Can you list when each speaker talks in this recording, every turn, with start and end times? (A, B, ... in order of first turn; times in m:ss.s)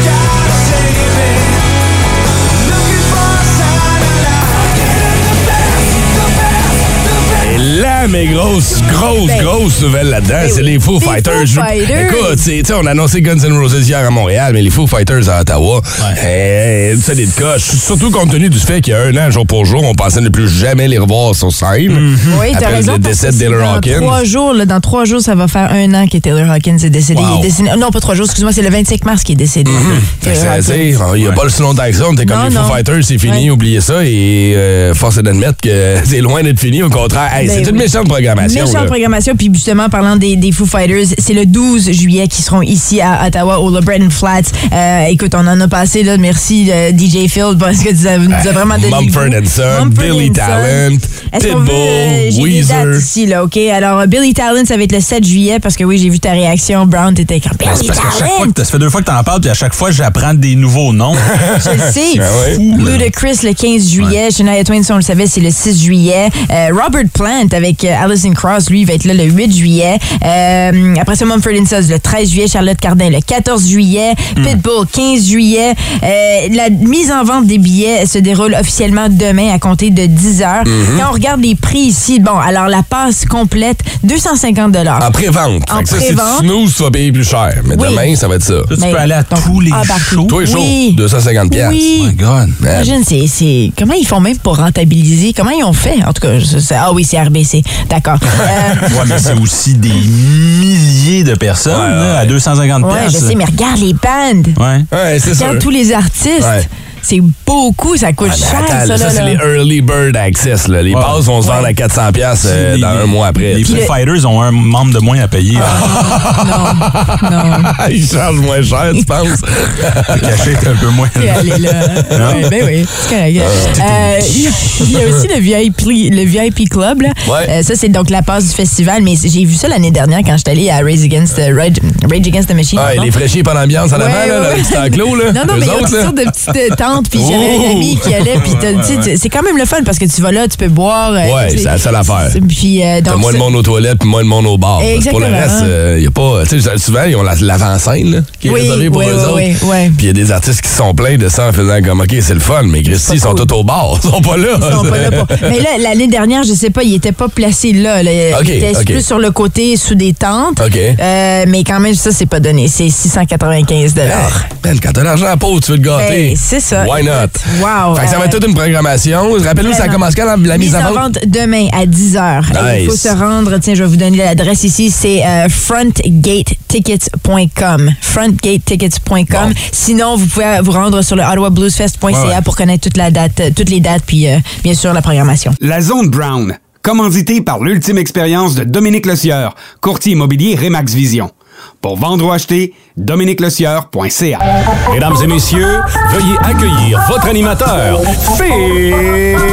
0:07.4-0:24.2 A
0:09.2-0:09.5 B
0:10.4-0:12.4 B
0:21.9-0:22.4 C
0:22.3-0:31.0 B
0:27.1-0:27.5 C
0:29.6-0:38.9 A
0:32.2-0:33.5 B
0:37.4-0:37.9 B
0:38.4-0:58.6 B
0:48.3-0:53.1 A
0:57.6-1:01.4 C
1:01.4-1:02.6 A
1:01.6-1:25.1 B
1:02.1-1:03.1 C
1:20.6-1:21.1 A
1:25.0-1:28.7 A
1:25.7-1:26.5 B
1:27.7-1:28.1 B
1:28.7-1:30.3 C
1:28.8-1:32.2 B
1:30.3-1:31.9 A
1:32.0-1:32.6 C
1:32.6-1:32.9 A
1:32.7-1:38.9 B
1:38.9-1:43.4 C
1:41.7-1:42.3 A
1:42.8-1:44.6 B
1:44.6-1:44.9 C
1:44.9-1:45.6 A
1:45.4-1:49.4 B
1:46.4-1:46.7 A
1:48.2-1:53.7 A
1:50.9-1:51.2 C
1:51.4-1:51.7 B
1:52.4-1:55.8 C
1:53.6-1:53.9 B
1:55.6-2:00.8 A
1:55.6-1:57.7 B
2:00.1-2:02.4 C
2:01.2-2:13.1 B
2:02.2-2:02.5 A
2:03.4-2:03.8 A
2:03.7-2:04.6 C
2:07.2-2:07.5 A
2:12.8-2:16.1 A
2:13.9-2:23.5 B
2:17.1-2:19.1 A
2:21.2-2:22.4 A
2:23.1-2:35.6 A
2:24.8-2:25.7 B
2:28.4-2:30.0 B
2:33.0-2:33.5 B
2:34.6-2:44.4 B
2:38.3-2:39.0 A
2:40.6-2:41.0 A
2:44.0-2:51.0 A
2:46.0-2:48.4 B
2:49.6-3:05.6 B
2:52.5-2:53.2 A
3:02.1-3:02.4 C
3:05.6-3:14.4 D
3:14.9-3:18.9 E